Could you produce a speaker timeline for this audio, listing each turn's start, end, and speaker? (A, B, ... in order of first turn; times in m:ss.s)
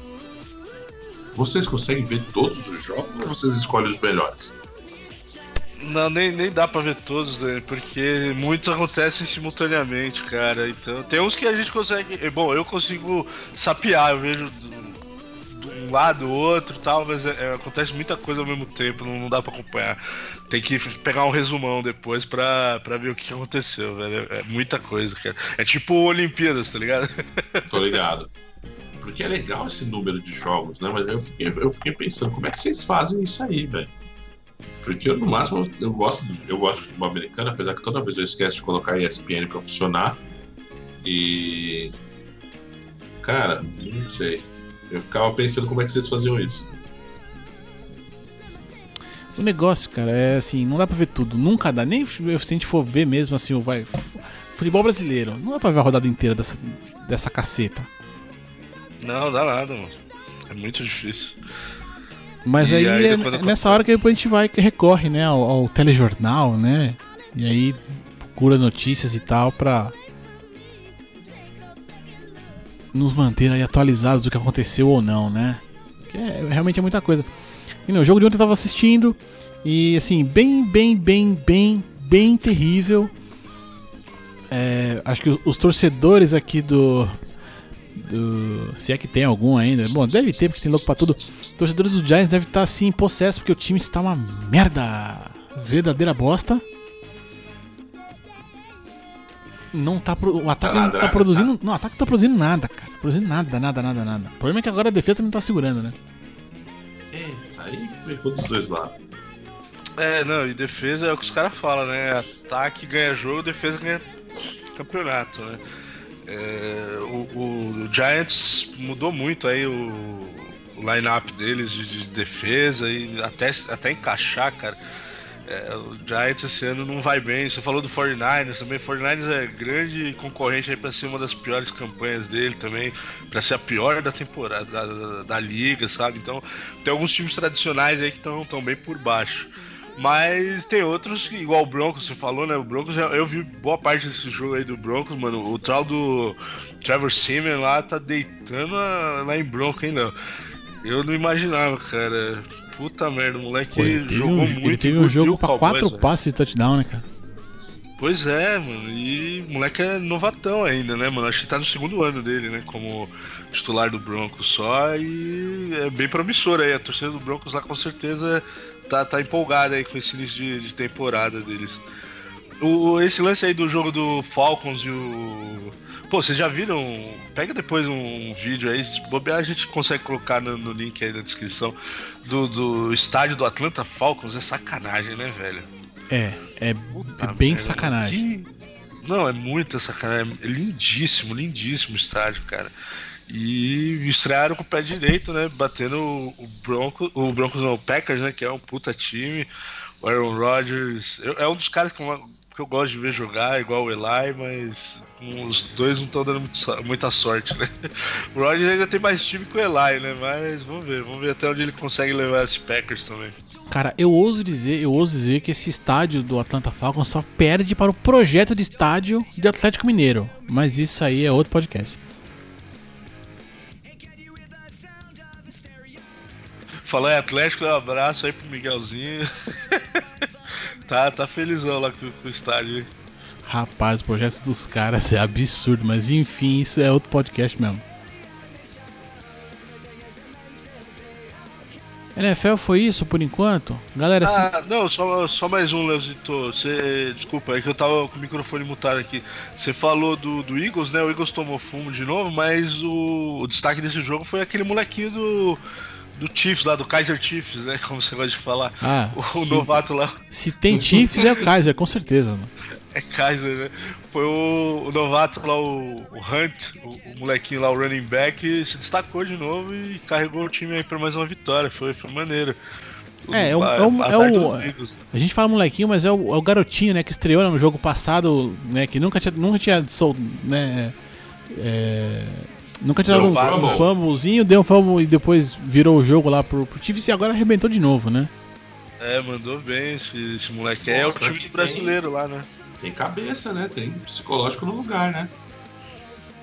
0:01.3-0:04.5 A
0:05.8-0:15.0 B
0:15.5-0:20.0 B
0:20.5-0:27.9 B
0:27.7-0:28.3 A
0:29.0-0:33.9 A
0:34.8-0:40.2 A
0:41.0-0:41.9 A
0:43.2-0:46.7 A
0:49.3-0:57.9 C
0:59.0-1:00.0 B
1:00.5-1:01.4 B
1:02.4-1:10.0 C
1:02.6-1:03.8 B
1:12.9-1:17.3 C
1:17.9-1:23.1 C
1:24.5-1:27.2 C
1:27.9-1:36.6 C
1:39.7-1:45.9 C
1:40.6-1:41.5 A
1:47.1-1:48.9 A
1:50.0-1:54.0 B
1:54.8-1:55.6 B
1:56.3-2:04.8 B
2:05.5-2:30.1 B
2:30.8-2:36.1 B
2:33.7-2:37.0 C
2:38.0-2:51.8 B
2:52.6-3:05.7 B
3:06.1-3:08.2 C
3:06.9-3:08.5 B
3:09.0-3:12.7 B
3:13.3-3:19.5 B
3:20.0-3:33.4 B
3:33.7-3:42.0 C
3:46.8-3:50.0 B
3:50.9-3:52.9 B
3:53.4-3:57.8 C
4:02.1-4:04.5 C
4:04.2-4:15.6 B
4:16.2-4:20.2 B
4:18.8-4:22.5 C
4:21.2-4:21.4 B
4:22.9-4:32.6 B
4:33.2-4:35.0 B
4:33.3-4:40.9 C
4:41.5-4:48.3 C
4:43.0-4:43.9 A
4:43.1-4:43.8 B
4:49.0-4:52.5 B
4:50.8-4:52.0 A
4:52.8-4:55.3 A